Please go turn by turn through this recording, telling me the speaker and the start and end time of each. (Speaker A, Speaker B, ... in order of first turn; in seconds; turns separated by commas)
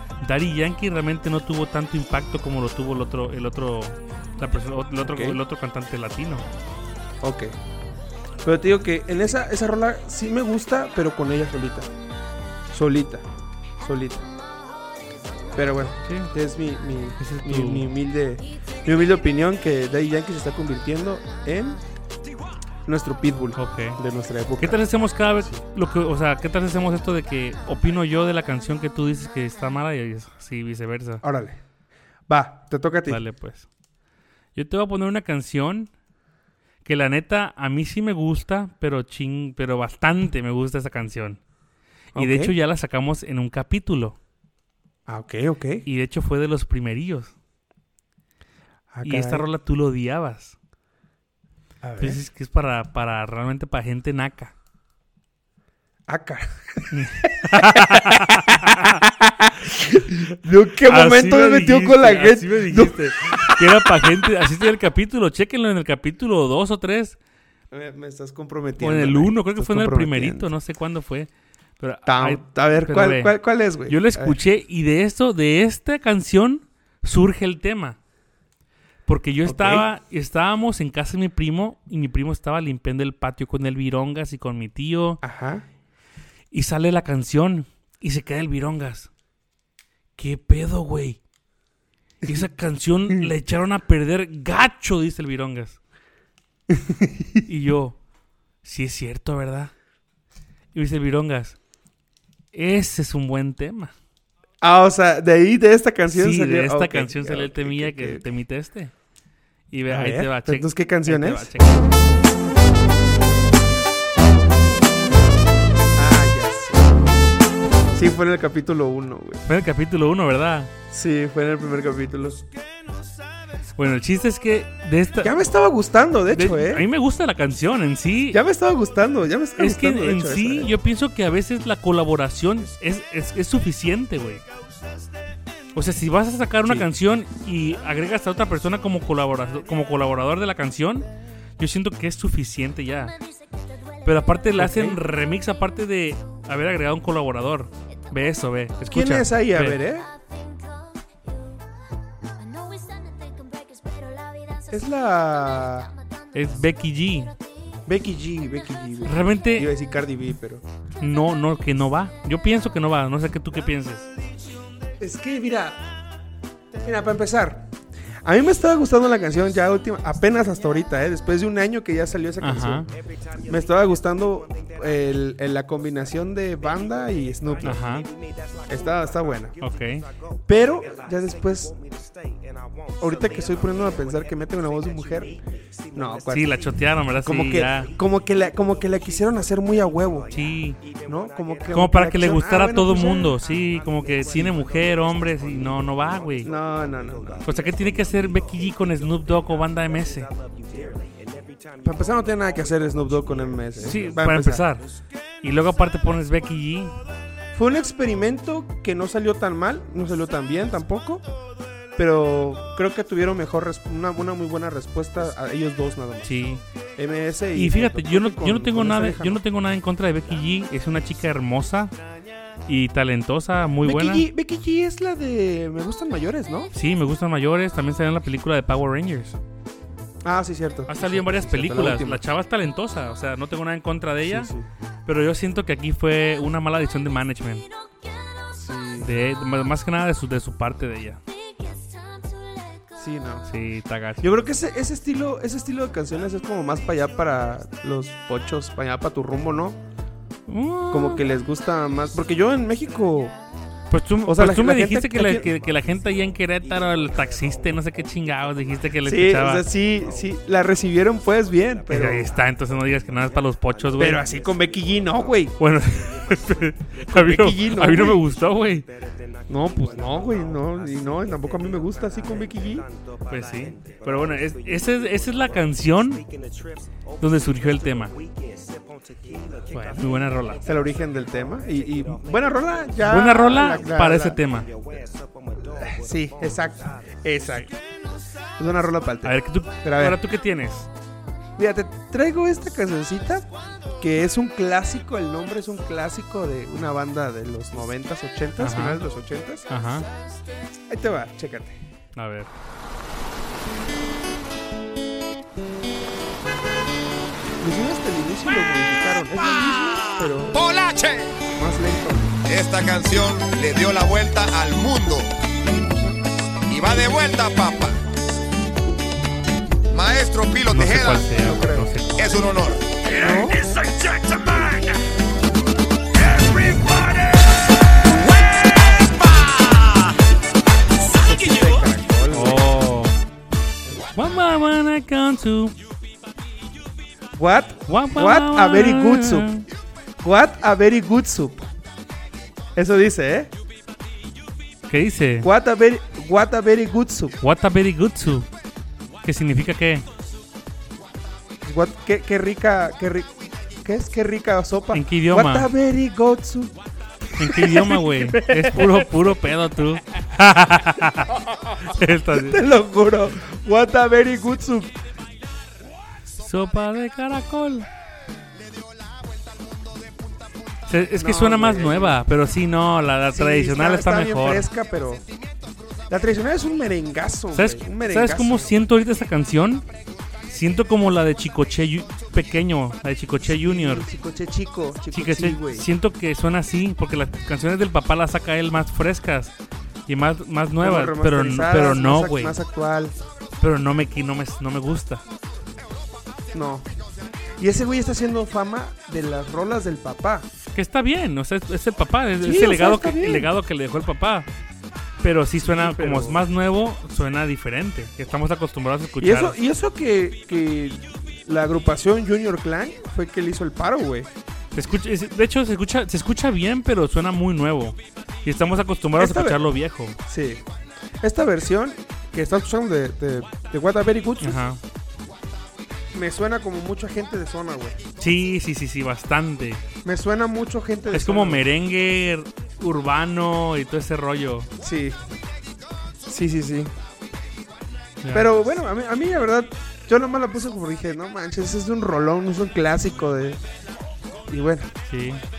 Speaker A: 0.2-6.5, Speaker B: 5.0-5.4, Speaker B: 7.2-7.5, Speaker B: 8.4-11.9, Speaker B: 12.7-13.3, Speaker B: 13.8-14.3, Speaker B: 15.6-21.8, Speaker A: 16.1-16.3, Speaker A: 17.2-17.9, Speaker B: 22.9-24.8, Speaker A: 23.6-24.0, Speaker A: 24.6-31.2, Speaker B: 31.2-31.6, Speaker B: 32.3-33.2, Speaker A: 33.1-33.7, Speaker A: 34.5-35.9, Speaker A: 36.9-41.4, Speaker A: 42.1-44.2, Speaker B: 42.2-42.5, Speaker B: 45.1-45.9, Speaker A: 45.9-47.3, Speaker B: 48.9-49.5, Speaker A: 49.0-50.6, Speaker B: 51.8-52.2, Speaker A: 52.0-54.5, Speaker B: 56.1-64.1, Speaker A: 56.9-59.0, Speaker A: 60.8-67.2, Speaker B: 67.7-70.5, Speaker A: 68.8-78.0, Speaker B: 72.0-74.4, Speaker A: 79.1-85.2, Speaker B: 79.5-79.9, Speaker B: 85.2-85.7, Speaker A: 86.5-89.1, Speaker A: 90.2-91.2, Speaker A: 92.2-95.8, Speaker B: 96.7-97.4, Speaker A: 97.5-98.0, Speaker A: 98.6-99.7, Speaker A: 100.7-101.6, Speaker A: 102.5-103.9, Speaker B: 104.6-108.2, Speaker A: 106.1-108.9, Speaker A: 109.7-111.9, Speaker B: 109.9-112.0, Speaker B: 116.0-117.2, Speaker B: 117.9-119.4, Speaker A: 119.5-120.7, Speaker B: 120.9-122.5, Speaker A: 123.8-125.4, Speaker B: 125.2-126.9, Speaker A: 126.3-128.4, Speaker B: 128.3-130.8, Speaker A: 129.6-134.4, Speaker A: 135.7-143.2, Speaker A: 144.0-149.8, Speaker B: 144.6-145.0, Speaker B: 148.9-150.1, Speaker B: 154.7-155.9, Speaker A: 156.3-157.3, Speaker B: 157.9-160.6, Speaker A: 159.1-159.7, Speaker A: 161.0-164.1, Speaker B: 165.0-165.9, Speaker B: 166.8-167.7, Speaker B: 168.2-177.9, Speaker A: 172.4-172.9, Speaker A: 177.7-178.1, Speaker B: 178.7-179.6, Speaker A: 179.6-180.1, Speaker B: 180.5-181.8, Speaker B: 183.0-186.6, Speaker A: 186.3-187.9, Speaker B: 187.2-190.4, Speaker A: 190.3-190.8, Speaker B: 191.0-193.4, Speaker A: 191.7-196.5, Speaker B: 194.2-194.6, Speaker B: 196.4-197.6, Speaker A: 197.4-200.3, Speaker B: 200.7-201.0, Speaker B: 201.8-204.7, Speaker A: 203.8-204.9, Speaker A: 205.4-206.9, Speaker B: 207.5-211.2, Speaker B: 212.0-216.3, Speaker A: 216.2-216.6, Speaker B: 217.0-219.4, Speaker A: 217.5-221.9, Speaker A: 222.7-224.3, Speaker B: 223.8-226.7, Speaker A: 226.7-229.4, Speaker B: 230.2-232.2, Speaker A: 230.9-234.5, Speaker B: 234.2-234.7, Speaker A: 235.1-237.7, Speaker B: 238.5-239.1, Speaker A: 239.0-241.2, Speaker B: 242.9-243.5, Speaker A: 243.5-244.3, Speaker B: 244.2-249.8, Speaker A: 250.5-251.2, Speaker B: 250.9-253.4, Speaker A: 253.9-259.7, Speaker B: 254.2-255.5, Speaker B: 259.0-262.3, Speaker A: 261.9-264.2, Speaker B: 264.0-265.6, Speaker A: 265.6-268.9, Speaker B: 267.0-268.2, Speaker B: 269.5-272.9, Speaker A: 273.3-276.3, Speaker A: 277.2-278.2, Speaker B: 279.2-280.1, Speaker A: 279.7-280.6, Speaker B: 280.6-287.8, Speaker A: 283.0-284.7, Speaker B: 288.6-290.2, Speaker A: 289.2-290.9, Speaker B: 291.6-293.5, Speaker B: 294.0-299.7, Speaker A: 298.6-299.0, Speaker A: 299.7-300.1, Speaker B: 300.9-301.8, Speaker A: 302.2-302.5, Speaker B: 307.6-310.6, Speaker C: 310.0-311.4, Speaker B: 311.5-312.4, Speaker C: 312.5-315.4, Speaker B: 315.7-316.1, Speaker C: 316.7-318.0, Speaker C: 319.9-321.3, Speaker A: 320.7-322.3, Speaker B: 321.3-321.9, Speaker C: 322.2-324.9, Speaker B: 323.1-323.6, Speaker C: 326.2-327.5, Speaker C: 328.3-330.1, Speaker B: 331.1-332.7, Speaker A: 332.3-333.2, Speaker A: 334.1-335.8, Speaker B: 337.3-339.5, Speaker A: 337.9-339.7, Speaker B: 340.2-341.7, Speaker B: 342.8-343.5, Speaker A: 344.9-345.5, Speaker B: 345.4-347.4, Speaker A: 347.4-348.5, Speaker A: 349.2-350.1, Speaker B: 351.6-356.8, Speaker A: 354.9-355.7, Speaker B: 357.4-359.2, Speaker A: 357.4-362.6, Speaker B: 362.3-365.0, Speaker A: 366.4-367.9, Speaker A: 370.9-374.7, Speaker B: 371.2-372.2, Speaker B: 373.3-375.2, Speaker B: 376.1-378.7, Speaker A: 377.5-379.9, Speaker A: 380.5-384.1, Speaker B: 383.4-385.9, Speaker A: 385.1-389.5, Speaker A: 390.1-392.6, Speaker B: 390.8-393.2, Speaker A: 393.6-395.2, Speaker B: 396.5-396.9, Speaker B: 397.6-400.5, Speaker A: 400.7-404.5, Speaker B: 402.4-403.5, Speaker A: 405.2-409.6, Speaker B: 405.6-406.4, Speaker B: 409.2-414.3, Speaker A: 414.7-420.2, Speaker B: 419.2-419.6, Speaker B: 420.3-420.6, Speaker B: 421.2-424.6, Speaker A: 424.4-424.8, Speaker B: 426.1-428.0, Speaker A: 428.2-429.8, Speaker B: 430.0-431.7, Speaker A: 431.1-434.7, Speaker B: 434.8-435.2, Speaker B: 436.3-436.9, Speaker A: 438.2-438.5, Speaker B: 438.3-443.6, Speaker B: 444.5-444.9, Speaker A: 445.1-445.4